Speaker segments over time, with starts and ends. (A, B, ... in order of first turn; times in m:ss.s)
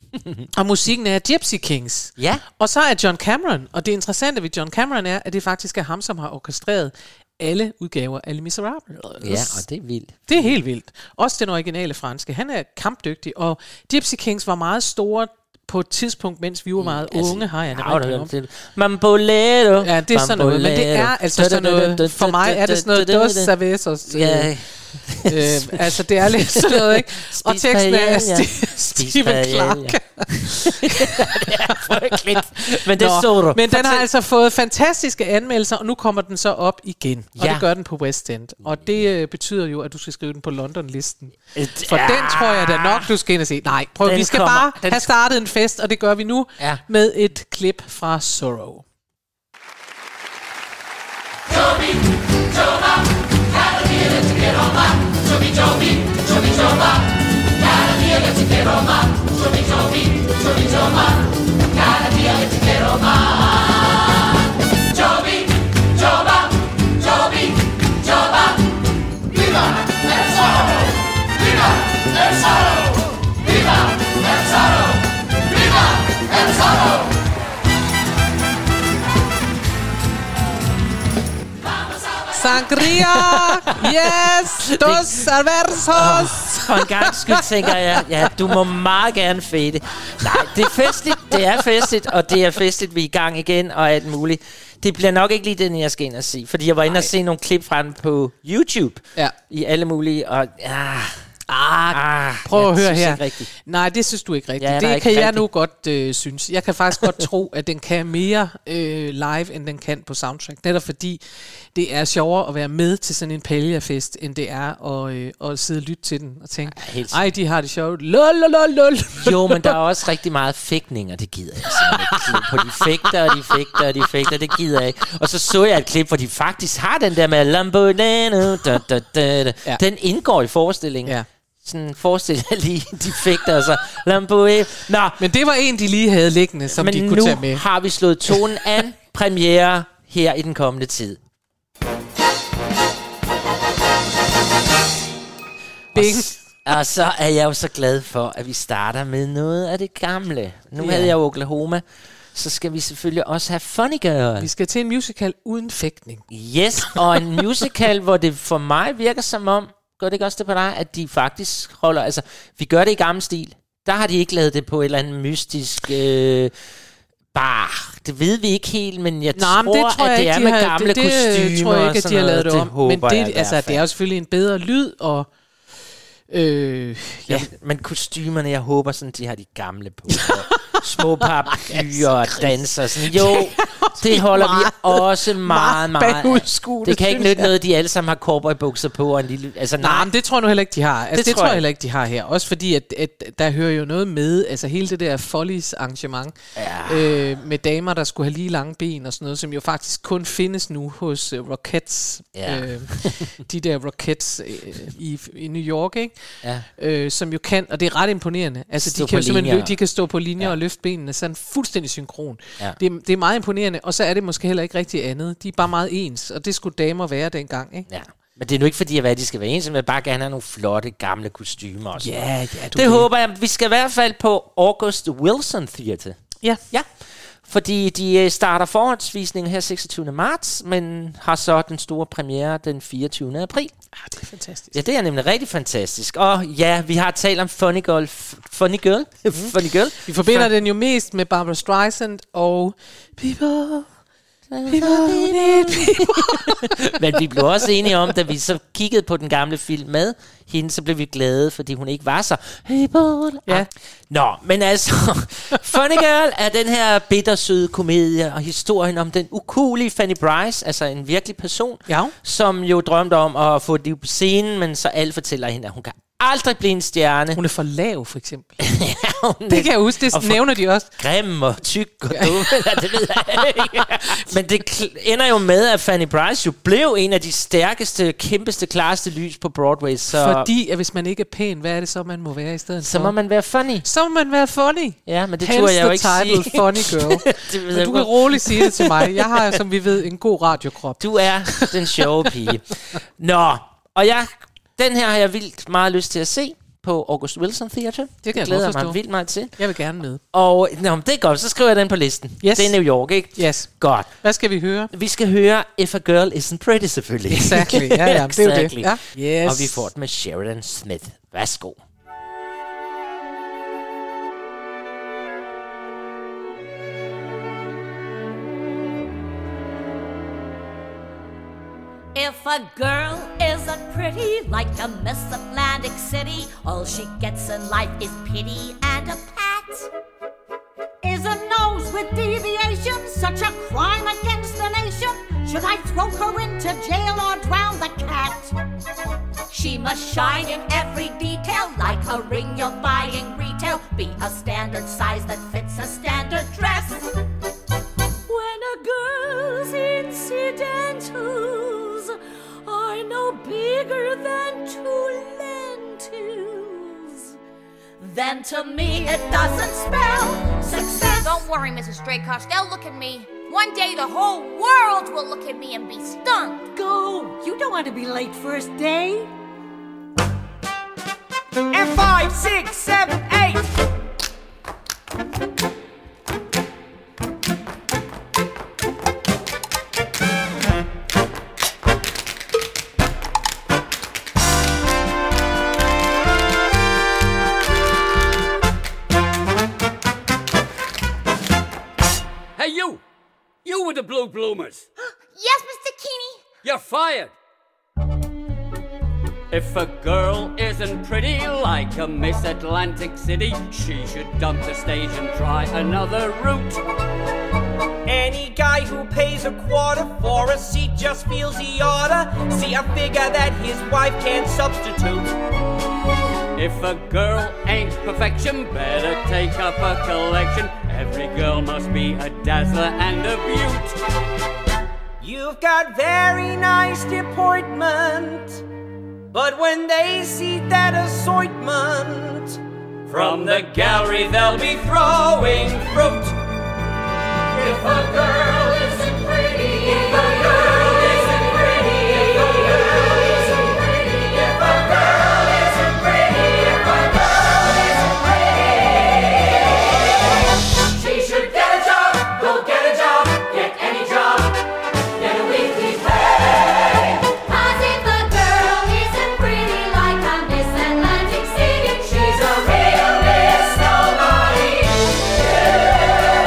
0:00.5-0:09.6 A
0:02.2-0:02.4 B
0:09.2-0:10.5 B
0:10.3-0:18.3 A
0:16.8-0:23.5 B
0:19.8-0:24.5 A
0:24.1-0:34.1 B
0:25.1-0:32.2 A
0:32.9-0:48.8 A
0:37.4-0:37.7 B
0:41.5-0:43.1 B
0:44.0-0:45.1 B
1:22.3-1:28.1 A
1:22.8-1:23.6 B
1:24.8-1:25.3 B
1:25.8-1:41.3 B
1:41.5-1:59.7 A
1:41.9-1:43.5 B
1:44.6-1:45.4 B
1:56.7-1:57.2 B
1:59.2-2:15.2 B
2:01.8-2:02.9 A
2:15.2-2:17.6 A
2:16.7-2:21.2 B
2:25.9-2:26.3 A
2:25.9-2:34.5 B
2:30.8-2:31.1 A
2:34.4-2:36.2 A
2:36.3-2:46.6 B
2:47.3-2:53.8 B
2:49.3-2:55.3 A
2:56.3-2:57.5 A
2:57.3-3:10.1 B
3:00.1-3:07.5 A
3:09.8-3:37.9 A
3:11.1-3:11.6 B
3:16.6-3:17.3 B
3:22.3-3:23.3 B
3:28.8-3:29.7 B
3:37.9-3:42.2 B
3:42.0-3:43.1 A
3:42.7-3:53.7 B
3:53.9-3:54.8 A
3:54.7-4:00.5 B
3:59.3-4:04.0 A
4:04.5-4:27.4 B
4:04.7-4:06.7 A
4:21.9-4:22.1 A
4:27.4-4:28.7 A
4:28.6-4:40.5 B
4:29.5-4:30.9 A
4:32.1-4:34.3 A
4:40.1-4:43.1 A
4:42.8-4:43.8 B
4:43.8-4:52.5 A
4:45.0-4:49.5 B
4:51.0-4:59.6 B
4:58.2-4:59.0 A
4:59.6-5:00.2 A
5:00.3-5:04.1 B
5:02.4-5:02.8 A
5:03.3-5:04.9 A
5:04.9-5:11.8 B
5:07.3-5:09.8 A
5:22.1-5:29.9 C
5:31.0-5:38.5 C
5:39.5-5:47.2 C
5:51.6-5:52.0 C
5:52.7-5:54.0 C
5:58.0-6:01.4 C
6:01.2-6:06.7 D
6:06.7-6:09.3 C
6:11.7-6:13.6 E
6:32.6-6:33.0 F
6:33.6-6:34.8 F
6:35.4-6:36.4 D
6:36.6-6:37.3 F
6:39.5-6:46.8 F
6:48.0-6:55.3 E
6:56.6-7:04.0 F
7:05.2-7:08.6 E
7:09.3-7:12.6 E
7:13.1-7:14.6 F
7:13.1-7:13.8 E
7:14.6-7:16.3 E
7:17.6-7:22.0 E
7:38.4-7:38.9 C
7:39.5-7:44.0 C